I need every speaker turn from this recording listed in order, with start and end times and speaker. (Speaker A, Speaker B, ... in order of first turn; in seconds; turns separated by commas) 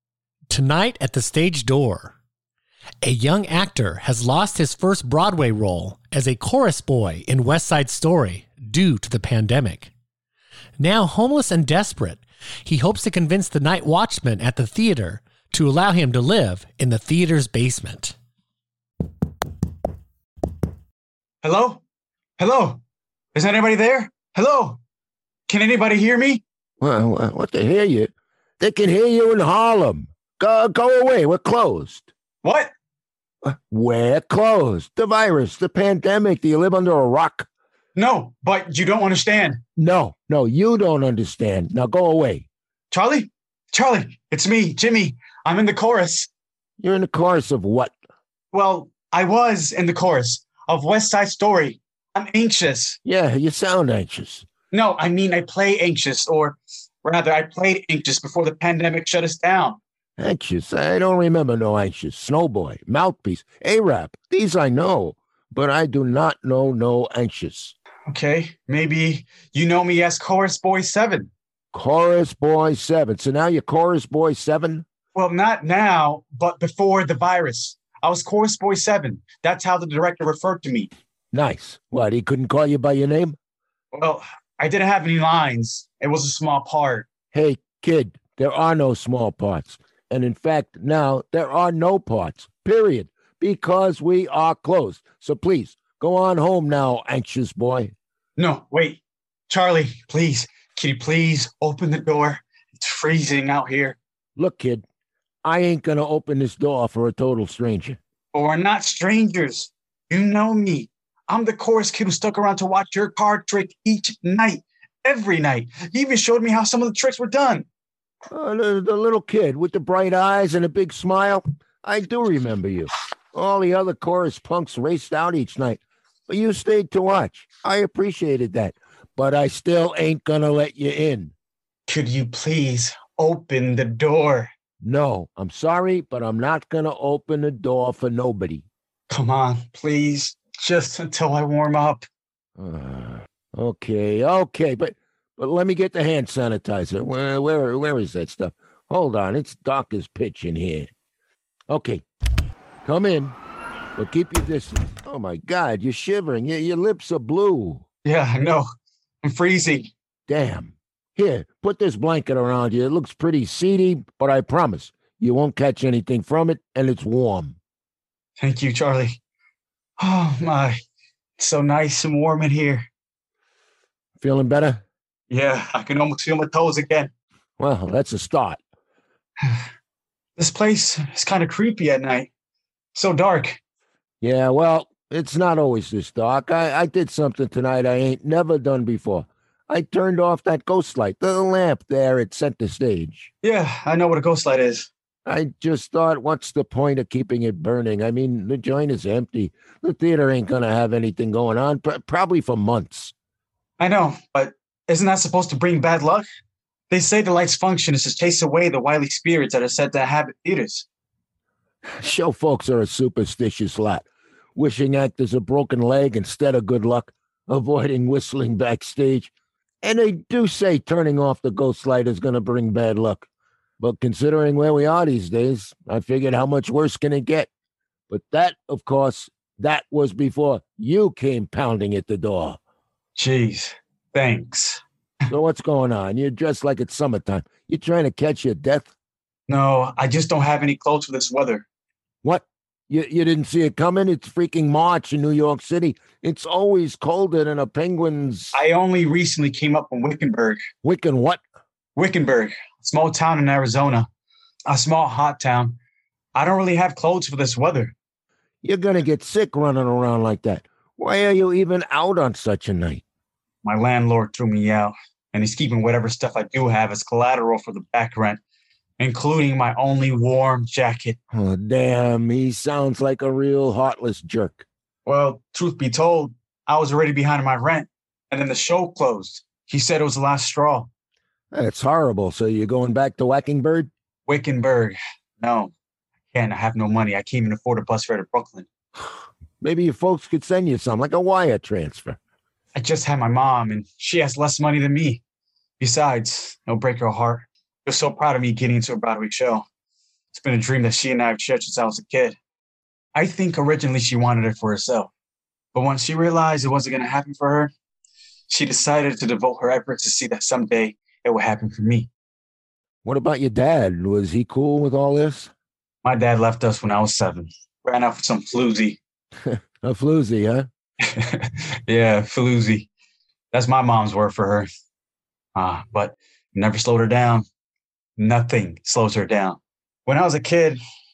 Speaker A: 0.5-2.1, Speaker A: 3.0-9.9, Speaker A: 10.8-18.1, Speaker B: 21.4-21.8, Speaker B: 22.4-22.8, Speaker B: 23.3-24.8, Speaker B: 25.5-26.4, Speaker C: 26.8-32.1, Speaker B: 32.4-32.7, Speaker C: 33.4-37.5, Speaker B: 37.9-39.6, Speaker C: 39.8-42.5, Speaker B: 42.9-46.3, Speaker C: 46.8-47.9, Speaker B: 48.5-53.0, Speaker C: 53.0-54.5, Speaker B: 54.7-59.8, Speaker C: 60.2-67.7, Speaker B: 68.1-71.3, Speaker C: 71.7-74.8, Speaker B: 75.1-80.9, Speaker C: 81.3-83.3, Speaker B: 83.9-87.1, Speaker C: 87.3-97.9, Speaker B: 98.4-104.0, Speaker C: 104.3-104.8, Speaker C: 105.4-108.0, Speaker B: 108.3-117.7, Speaker C: 118.3-131.3, Speaker B: 131.9-134.5, Speaker C: 134.8-138.6, Speaker B: 139.1-142.0, Speaker C: 142.6-150.9, Speaker C: 151.7-152.0, Speaker C: 152.8-153.3, Speaker C: 153.9-157.8, Speaker B: 158.0-158.6, Speaker B: 159.2-159.9, Speaker C: 160.3-167.6, Speaker B: 168.4-169.2, Speaker B: 170.0-170.8, Speaker B: 171.4-172.9, Speaker C: 174.2-174.8, Speaker B: 175.3-177.1, Speaker C: 177.6-178.6, Speaker B: 180.4-182.3, Speaker B: 182.9-183.6, Speaker C: 184.2-193.3, Speaker B: 193.4-194.9, Speaker C: 195.2-203.1, Speaker B: 203.8-206.2, Speaker B: 206.9-210.8, Speaker C: 212.0-219.3, Speaker C: 219.8-223.3, Speaker C: 223.8-227.5, Speaker C: 228.1-232.6, Speaker B: 233.1-234.8, Speaker C: 235.3-238.9, Speaker B: 239.5-241.7, Speaker C: 242.2-248.5, Speaker B: 248.5-250.6, Speaker C: 250.8-251.4, Speaker B: 251.9-254.1, Speaker B: 254.7-255.8, Speaker B: 256.3-257.9, Speaker C: 258.6-263.0, Speaker B: 263.6-268.4, Speaker B: 269.0-271.2, Speaker C: 271.3-274.6, Speaker B: 275.1-280.9, Speaker C: 281.5-283.9, Speaker B: 284.2-285.7, Speaker B: 286.3-288.7, Speaker C: 289.6-292.2, Speaker B: 292.7-295.2, Speaker B: 295.8-299.6, Speaker B: 300.3-302.4, Speaker B: 303.1-305.1, Speaker B: 305.7-307.7, Speaker B: 308.5-312.1, Speaker C: 313.0-315.5, Speaker B: 316.0-319.0, Speaker C: 319.4-320.7, Speaker B: 321.1-322.9, Speaker B: 323.5-324.7, Speaker B: 325.5-327.4, Speaker B: 328.2-330.8